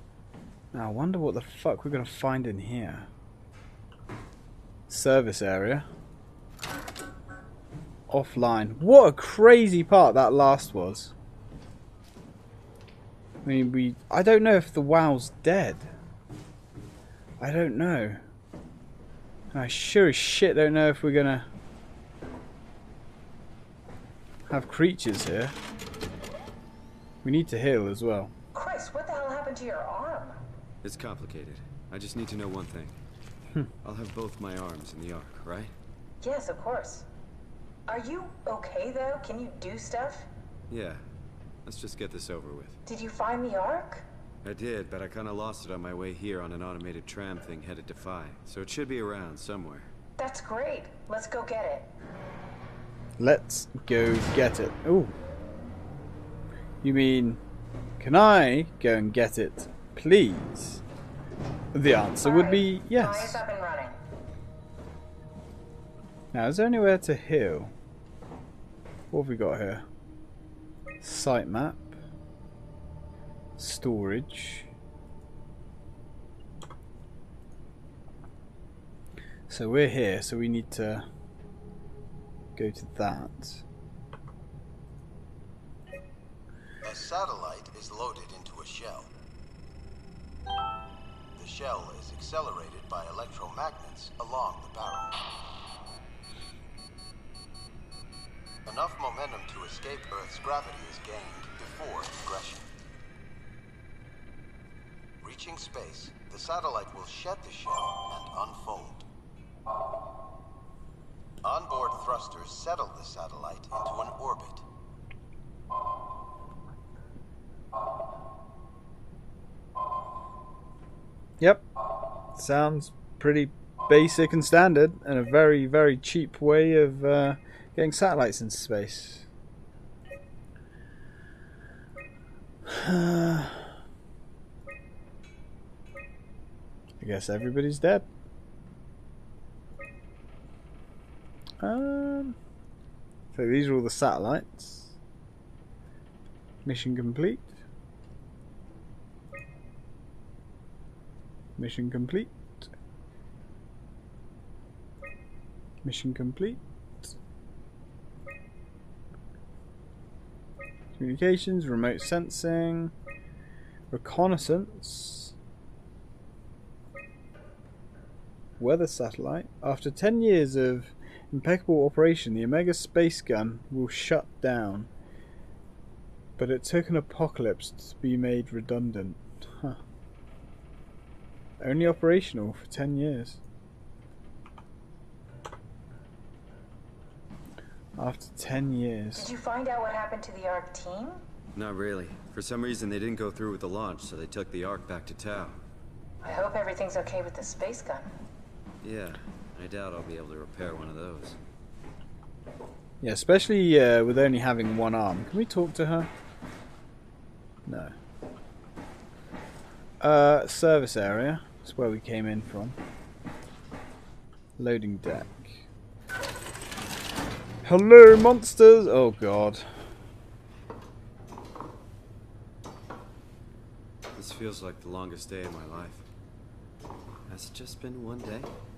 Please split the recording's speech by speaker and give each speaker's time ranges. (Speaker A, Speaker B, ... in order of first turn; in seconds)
Speaker A: 0.7-3.1, 4.9-5.9, 8.1-11.1, 13.4-15.9, 17.4-18.2, 19.5-21.5, 24.5-25.6, 27.2-28.3, 53.2-55.1, 56.8-57.4, 58.0-60.8, 61.7-63.4, 66.3-67.7, 69.1-69.8, 71.0-72.0, 73.6-74.7, 79.5-81.1, 82.6-83.6, 121.4-121.7, 122.3-129.3, 132.7-133.7, 137.0-138.1, 141.6-142.4, 143.3-144.9, 146.7-147.6, 151.6-152.7, 155.8-157.1, 161.0-162.9, 163.9-165.3, 168.6-174.9, 176.4-179.8, 181.6-183.4, 188.0-189.3, 203.0-206.1, 207.7-207.9, 210.0-212.8, 214.6-215.6, 217.6-219.7
Speaker B: 28.5-30.4, 36.2-37.1, 37.9-40.3, 42.9-44.1, 50.2-51.9, 62.2-64.0, 189.2-191.2, 196.2-198.1
Speaker C: 30.8-33.0, 33.8-35.7, 40.7-41.0, 41.6-42.8, 44.4-49.9, 191.6-195.6, 198.8-201.4, 224.2-226.1, 227.3-228.5
Speaker D: 86.8-89.1, 91.4-95.4, 98.7-102.7, 105.2-109.0, 111.4-114.7